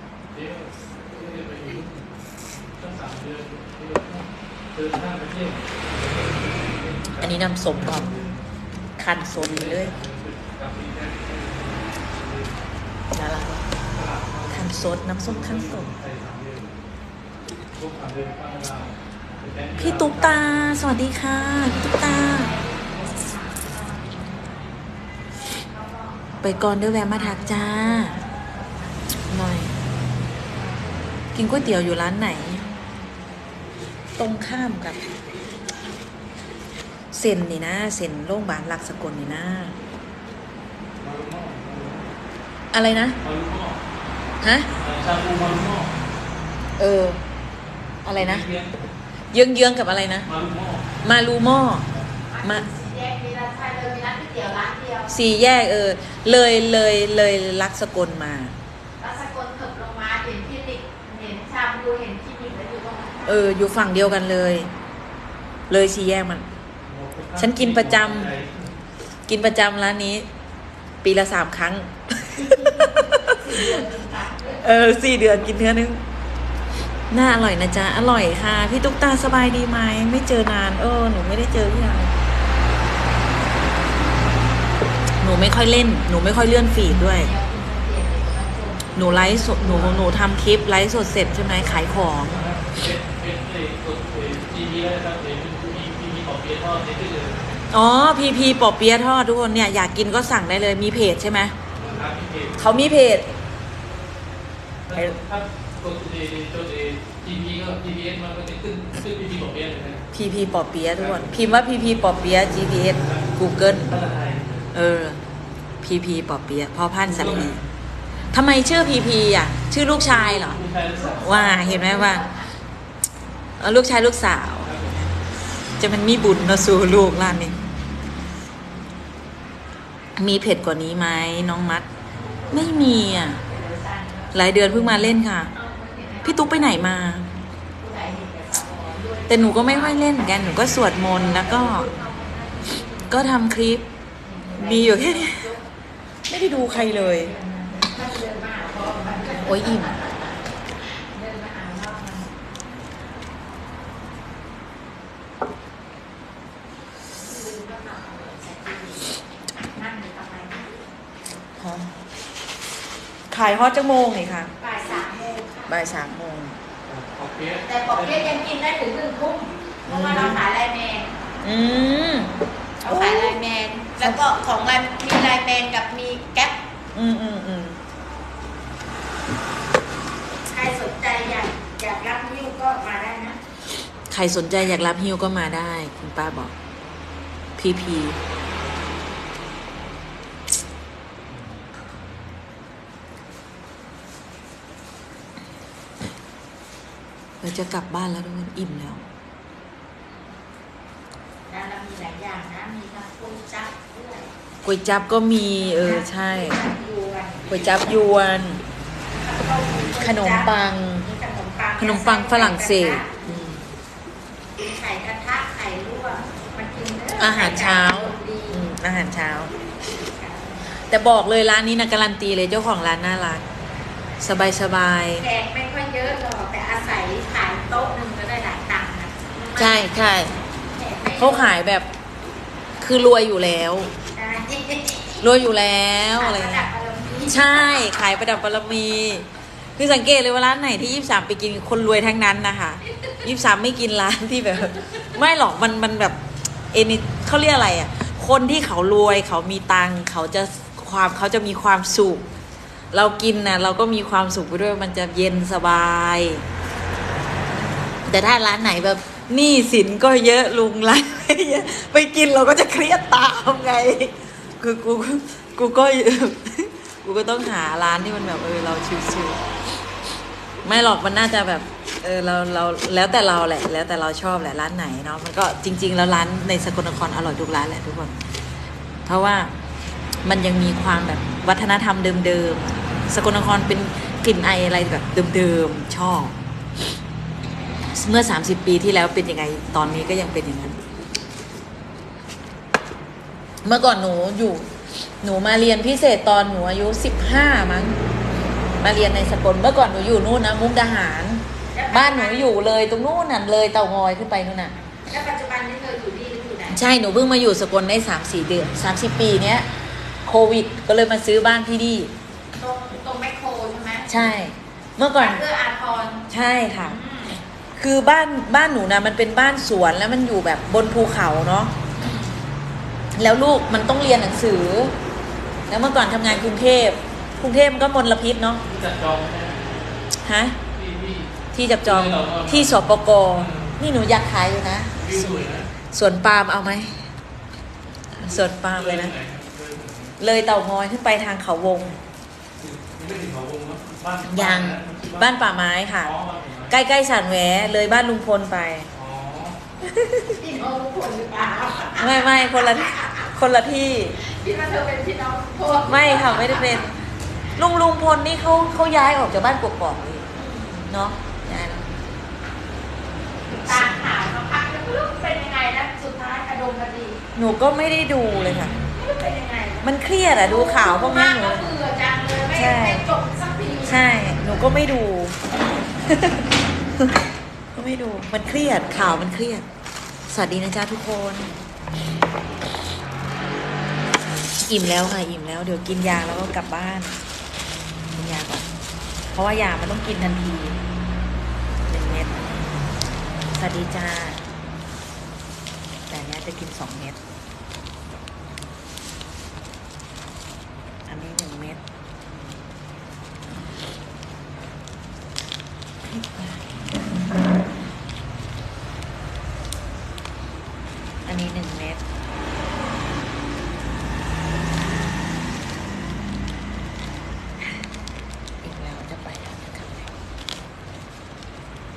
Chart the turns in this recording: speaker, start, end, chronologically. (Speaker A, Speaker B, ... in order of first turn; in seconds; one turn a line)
Speaker A: 0.3-2.1
Speaker A: 2.8-8.5
Speaker B: 7.2-8.1
Speaker B: 9.0-9.9
Speaker A: 9.3-12.6
Speaker B: 13.1-13.7
Speaker A: 13.9-16.7
Speaker B: 14.5-15.9
Speaker A: 17.7-20.8
Speaker B: 19.8-22.5
Speaker C: 21.8-24.7
Speaker C: 25.6-29.2
Speaker B: 26.4-28.1
Speaker B: 29.3-29.7
Speaker C: 30.5-31.2
Speaker B: 31.3-32.6
Speaker C: 32.6-33.6
Speaker B: 34.2-35.0
Speaker B: 37.1-39.8
Speaker A: 41.0-42.1
Speaker B: 42.7-43.2
Speaker A: 43.2-43.8
Speaker B: 44.4-44.7
Speaker A: 44.8-45.9
Speaker B: 46.8-47.2
Speaker B: 48.0-48.5
Speaker A: 48.1-48.9
Speaker B: 49.3-50.3
Speaker A: 50.2-50.9
Speaker B: 51.0-51.9
Speaker C: 52.1-55.1
Speaker B: 55.1-58.6
Speaker C: 59.0-63.5
Speaker B: 63.2-64.7
Speaker B: 65.7-66.5
Speaker A: 66.8-68.8
Speaker B: 67.4-68.3
Speaker B: 69.3-70.3
Speaker B: 71.0-73.8
Speaker C: 72.3-74.8
Speaker B: 74.6-76.0
Speaker B: 77.1-82.1
Speaker B: 85.2-87.3
Speaker C: 86.8-90.0
Speaker B: 88.9-92.4
Speaker A: 89.6-90.1
Speaker C: 91.6-92.0
Speaker A: 92.2-97.5
Speaker B: 97.7-101.5
Speaker C: 101.8-102.1
Speaker A: 101.9-102.6
Speaker B: 102.6-103.3
Speaker A: 104.9-110.1
Speaker B: 110.1-114.0
Speaker A: 111.0-111.4
Speaker A: 112.9-114.7
Speaker B: 114.7-115.2
Speaker B: 115.8-117.6
Speaker A: 117.0-117.6
Speaker B: 118.3-120.6
Speaker A: 120.0-121.7
Speaker C: 120.9-122.5
Speaker B: 121.2-122.3
Speaker B: 123.6-124.7
Speaker A: 124.6-125.1
Speaker B: 125.8-127.5
Speaker B: 130.2-131.9
Speaker C: 132.2-136.9
Speaker B: 132.5-133.4
Speaker B: 134.3-135.5
Speaker B: 136.2-137.3
Speaker C: 137.7-143.4
Speaker B: 139.3-141.9
Speaker B: 143.1-143.9
Speaker C: 144.2-145.7
Speaker B: 144.6-145.5
Speaker B: 146.3-147.3
Speaker C: 146.4-152.3
Speaker B: 149.3-149.9
Speaker C: 157.2-161.4
Speaker B: 161.6-162.0
Speaker B: 163.3-164.5
Speaker C: 164.6-166.0
Speaker B: 165.7-166.6
Speaker A: 166.8-168.4
Speaker C: 167.6-171.1
Speaker B: 169.9-170.4
Speaker B: 171.4-172.3
Speaker C: 172.8-176.6
Speaker B: 172.8-173.4
Speaker B: 176.9-177.8
Speaker C: 180.5-183.4
Speaker B: 184.1-186.5
Speaker B: 187.6-188.2
Speaker A: 191.3-191.6
Speaker B: 197.4-199.1
Speaker C: 201.5-204.3
Speaker B: 204.6-206.6
Speaker C: 205.6-208.0
Speaker B: 207.5-208.6
Speaker C: 209.1-213.4
Speaker B: 210.0-211.1
Speaker B: 211.8-213.7
Speaker C: 214.6-218.7
Speaker B: 217.2-219.6
Speaker C: 219.9-220.8
Speaker B: 220.8-223.4
Speaker B: 224.2-225.2
Speaker C: 225.2-231.5
Speaker B: 229.6-230.3
Speaker B: 231.2-231.9
Speaker B: 232.8-233.9
Speaker C: 234.1-235.2
Speaker B: 235.2-236.7
Speaker C: 236.1-237.7
Speaker B: 237.2-246.2
Speaker C: 244.7-245.0
Speaker B: 246.7-252.3
Speaker B: 252.9-256.4
Speaker B: 258.0-269.4
Speaker B: 270.6-278.2
Speaker B: 279.0-279.5
Speaker B: 280.2-286.4
Speaker B: 287.9-290.8
Speaker B: 293.6-298.0
Speaker B: 298.8-304.7
Speaker C: 301.7-302.5
Speaker C: 305.0-306.8
Speaker B: 306.7-309.7
Speaker B: 310.2-312.1
Speaker C: 312.6-314.2
Speaker B: 314.1-315.4
Speaker C: 315.2-316.3
Speaker B: 316.3-317.0
Speaker C: 316.9-317.4
Speaker B: 317.8-321.7
Speaker C: 321.9-322.4
Speaker B: 323.1-324.9
Speaker B: 325.7-328.6
Speaker A: 328.6-329.9
Speaker B: 330.2-330.6
Speaker A: 330.7-332.8
Speaker B: 331.5-337.1
Speaker A: 333.3-333.8
Speaker A: 335.0-335.7
Speaker B: 338.1-339.1
Speaker A: 338.2-340.2
Speaker B: 340.2-342.0
Speaker A: 342.6-345.3
Speaker B: 344.2-346.1
Speaker A: 345.9-346.8
Speaker B: 346.7-348.9
Speaker A: 348.9-349.6
Speaker B: 349.8-350.4
Speaker C: 350.3-353.3
Speaker B: 351.9-354.2
Speaker C: 354.1-357.0
Speaker B: 355.8-356.9
Speaker B: 357.6-360.3
Speaker C: 360.3-360.9
Speaker B: 360.9-361.9
Speaker C: 363.5-367.2
Speaker B: 363.6-363.9
Speaker B: 367.3-368.8
Speaker A: 368.2-368.7
Speaker C: 368.7-374.1
Speaker B: 369.8-371.6
Speaker B: 372.5-373.1
Speaker B: 373.9-379.6
Speaker B: 380.3-381.5
Speaker B: 384.5-387.2
Speaker B: 388.1-388.7
Speaker B: 389.3-390.8
Speaker B: 391.9-392.5
Speaker B: 393.5-394.4
Speaker B: 396.1-397.2
Speaker B: 401.1-401.8
Speaker B: 406.0-407.4
Speaker B: 411.2-412.0
Speaker B: 418.6-420.1